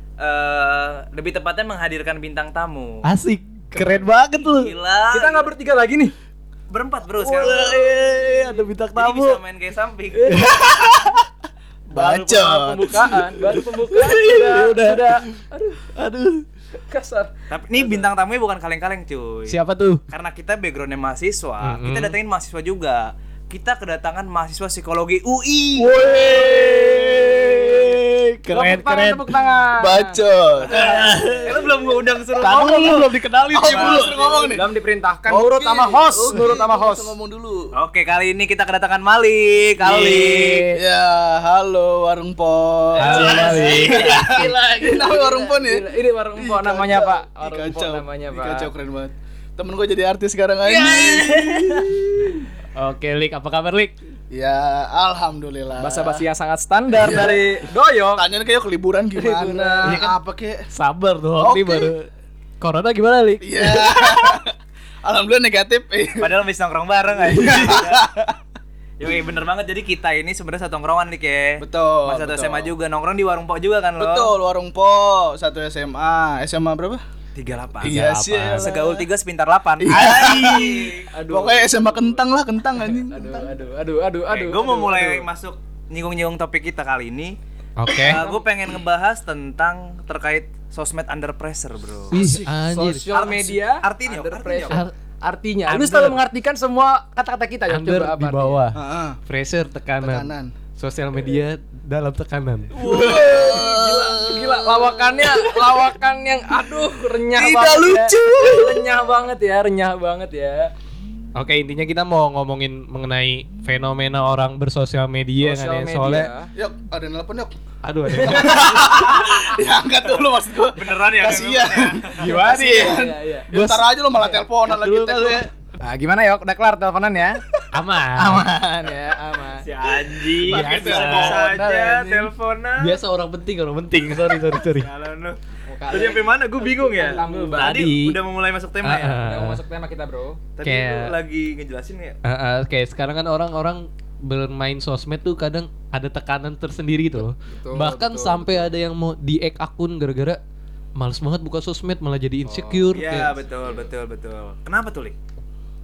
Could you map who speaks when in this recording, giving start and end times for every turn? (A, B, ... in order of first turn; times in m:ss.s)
0:00.2-0:03.0 A
0:03.0-0:04.7 B
0:04.5-0:05.5 A
0:05.1-0:06.1 C
0:06.7-0:08.2 A
0:07.2-0:09.4 B
0:08.9-0:10.6 A
0:10.2-0:11.3 B
0:12.0-0:15.2 B
0:12.0-0:15.8 C
0:16.0-0:16.4 B
0:16.9-0:18.1 C
0:17.5-0:19.6 A
0:19.5-0:20.0 B
0:20.1-0:26.0 A
0:21.6-0:22.2 B
0:25.8-0:31.7 B
0:26.1-0:27.8 C
0:28.5-0:30.2 C
0:30.1-0:31.1 D
0:30.7-0:33.1 A
0:32.4-0:34.0 B
0:33.5-0:34.6 D
0:33.6-0:34.4 A
0:34.1-0:37.2 C
0:35.3-0:37.6 D
0:37.8-0:40.6 A
0:39.8-0:51.9 D
0:40.0-0:40.8 B
0:43.0-0:44.2 A
0:43.0-0:44.5 B
0:43.2-0:48.7 C
0:50.7-0:51.7 A
0:50.9-0:51.3 B
0:52.8-0:54.0 B
0:54.3-0:56.2 D
0:55.8-0:58.3 C
0:56.9-0:57.4 D
0:58.2-1:00.6 D
0:59.2-1:00.0 C
0:59.8-1:00.2 B
1:00.7-1:02.1 B
1:01.4-1:01.9 D
1:02.6-1:04.4 B
1:03.4-1:04.5 D
1:05.0-1:06.3 D
1:06.2-1:08.0 A
1:07.2-1:08.4 D
1:09.0-1:14.3 A
1:11.6-1:12.7 D
1:14.0-1:17.0 D
1:17.4-1:18.0 A
1:17.8-1:19.0 D
1:17.9-1:18.7 B
1:18.5-1:21.1 A
1:19.8-1:23.5 D
1:21.1-1:22.2 C
1:22.8-1:25.3 C
1:24.3-1:27.4 A
1:27.8-1:28.2 B
1:27.9-1:32.2 A
1:28.1-1:28.4 C
1:32.1-1:32.5 D
1:32.1-1:33.1 B
1:32.6-1:38.6 C
1:33.1-1:34.8 A
1:35.7-1:36.2 D
1:37.7-1:43.6 B
1:38.7-1:39.2 D
1:40.0-1:40.5 D
1:42.8-1:45.8 D
1:42.9-1:50.7 C
1:47.3-1:48.8 D
1:51.4-1:56.3 B
1:55.4-1:56.5 C
1:56.5-1:57.5 D
1:57.8-1:58.9 B
1:58.2-2:05.5 D
1:59.1-1:59.4 A
2:00.6-2:02.4 A
2:02.2-2:03.5 C
2:02.5-2:03.0 B
2:03.5-2:03.8 B
2:04.6-2:05.5 B
2:05.8-2:07.4 C
2:07.7-2:08.5 B
2:08.2-2:09.6 C
2:09.6-2:13.0 A
2:10.4-2:12.3 D
2:10.4-2:11.6 B
2:12.8-2:14.9 B
2:14.3-2:19.2 A
2:15.7-2:17.8 C
2:17.5-2:18.2 B
2:18.8-2:19.6 B
2:19.2-2:20.4 C
2:20.6-2:22.2 A
2:20.6-2:21.1 B
2:22.2-2:30.4 B
2:27.1-2:28.7 C
2:31.0-2:33.3 B
2:32.4-2:33.0 C
2:32.9-2:35.2 A